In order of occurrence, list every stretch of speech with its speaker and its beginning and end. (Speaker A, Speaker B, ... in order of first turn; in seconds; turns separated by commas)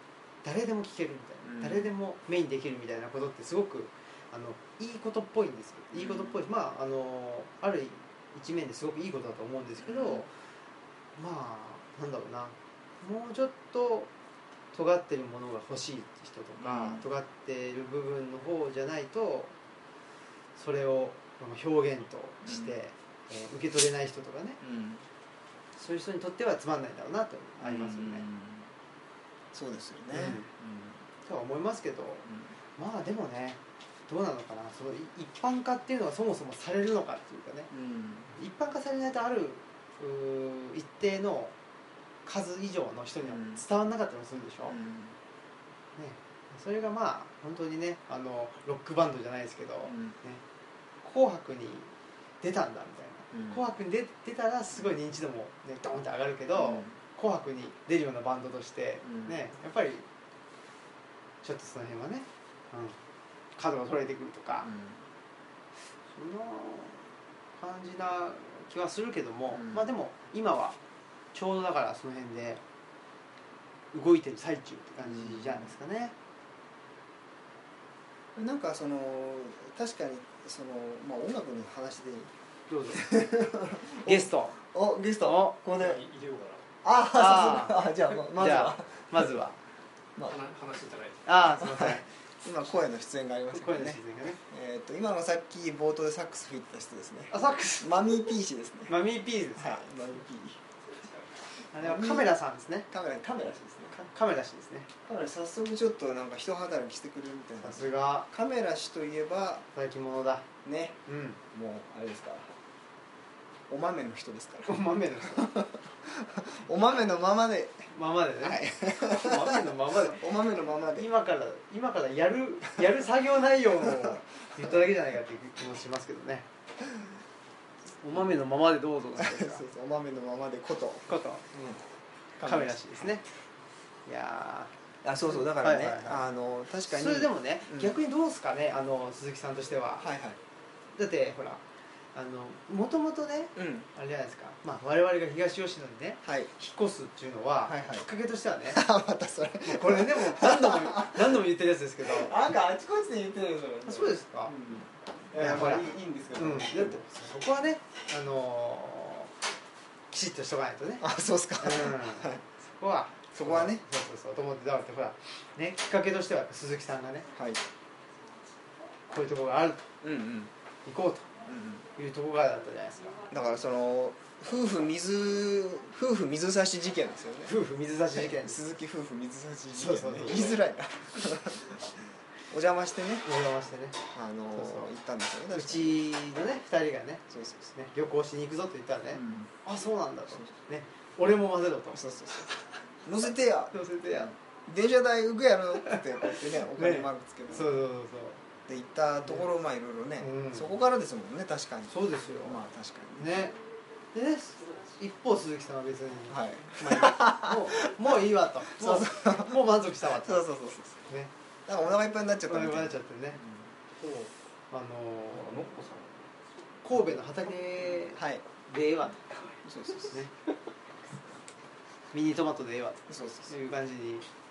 Speaker A: 0.4-10.3, Speaker B: 1.4-1.9, Speaker B: 5.9-6.4, Speaker B: 9.8-10.2, Speaker A: 11.2-14.1, Speaker A: 14.7-19.5, Speaker B: 16.6-17.0, Speaker A: 20.6-24.6, Speaker B: 22.4-22.7, Speaker B: 24.6-25.0, Speaker A: 25.8-28.3, Speaker B: 27.6-28.7, Speaker B: 29.5-31.0, Speaker A: 30.1-30.5, Speaker A: 31.3-37.7, Speaker B: 32.3-32.5, Speaker B: 37.7-38.3, Speaker A: 38.3-41.5, Speaker A: 42.2-44.8, Speaker B: 43.2-43.6, Speaker B: 44.7-45.2, Speaker A: 46.0-50.4, Speaker B: 49.9-50.1, Speaker A: 51.0-60.0, Speaker B: 53.3-53.6, Speaker B: 56.6-57.0, Speaker B: 59.0-59.4, Speaker A: 61.4-63.0, Speaker A: 63.6-64.7, Speaker B: 64.6-65.0, Speaker A: 66.1-67.1, Speaker A: 67.6-70.8, Speaker B: 69.5-69.9, Speaker A: 71.3-72.6, Speaker A: 73.9-76.1, Speaker B: 75.0-75.7, Speaker B: 78.4-82.3, Speaker A: 82.7-83.1, Speaker B: 82.9-86.0, Speaker A: 84.0-84.6, Speaker A: 85.2-85.6, Speaker C: 85.8-86.7, Speaker B: 86.8-89.3, Speaker A: 87.1-89.6, Speaker C: 90.3-91.2, Speaker A: 91.2-92.0, Speaker B: 91.5-99.0, Speaker A: 93.5-94.4, Speaker A: 97.3-98.3, Speaker A: 98.9-99.8, Speaker B: 99.6-100.6, Speaker A: 101.7-102.9, Speaker B: 101.8-102.4, Speaker B: 102.9-104.0, Speaker A: 103.9-104.9, Speaker B: 105.1-109.7, Speaker A: 107.6-108.3, Speaker A: 109.7-110.5, Speaker B: 110.7-111.0, Speaker A: 111.1-111.4, Speaker B: 111.5-112.5, Speaker B: 113.7-117.9, Speaker A: 114.7-115.5, Speaker A: 117.9-120.2, Speaker B: 118.4-121.1, Speaker A: 121.0-126.5, Speaker B: 123.8-124.2, Speaker A: 128.0-129.7, Speaker B: 129.2-131.8, Speaker A: 131.1-131.6, Speaker A: 132.4-133.2, Speaker B: 132.4-133.1, Speaker A: 134.1-134.7, Speaker B: 135.0-138.0, Speaker A: 135.2-136.2, Speaker A: 136.9-140.1, Speaker B: 140.0-140.4, Speaker A: 141.0-141.6, Speaker A: 142.2-148.8, Speaker B: 143.6-143.9, Speaker B: 146.2-146.5, Speaker B: 147.7-148.1, Speaker B: 148.7-151.4, Speaker A: 149.6-152.3, Speaker B: 152.0-157.0, Speaker A: 153.8-154.5, Speaker A: 155.4-159.3, Speaker A: 160.1-161.1, Speaker B: 161.0-162.4, Speaker A: 161.6-167.3, Speaker B: 163.3-163.8, Speaker B: 167.3-167.6, Speaker A: 169.1-169.9, Speaker B: 170.0-170.5, Speaker A: 170.9-171.3, Speaker B: 171.4-171.9, Speaker A: 172.0-173.2, Speaker B: 173.3-177.6, Speaker A: 177.5-178.6, Speaker B: 178.1-183.3, Speaker A: 179.7-180.6, Speaker A: 183.2-184.0, Speaker B: 184.1-186.0, Speaker A: 184.6-184.9, Speaker A: 185.5-192.6, Speaker B: 187.3-187.7, Speaker B: 189.1-189.5, Speaker B: 191.9-192.5, Speaker B: 193.1-197.7, Speaker A: 193.7-194.3, Speaker A: 195.8-198.4, Speaker B: 198.7-203.5, Speaker A: 200.2-200.8, Speaker A: 201.9-202.6, Speaker A: 203.2-203.6, Speaker A: 204.1-210.5, Speaker B: 206.3-208.0, Speaker B: 208.7-211.0, Speaker A: 211.1-211.3, Speaker B: 211.7-213.7, Speaker A: 212.5-213.4, Speaker C: 214.0-214.3, Speaker A: 214.7-215.6, Speaker C: 215.3-216.3, Speaker A: 216.8-220.3, Speaker B: 218.1-218.4, Speaker B: 219.7-220.2, Speaker A: 222.1-224.3, Speaker B: 223.1-223.5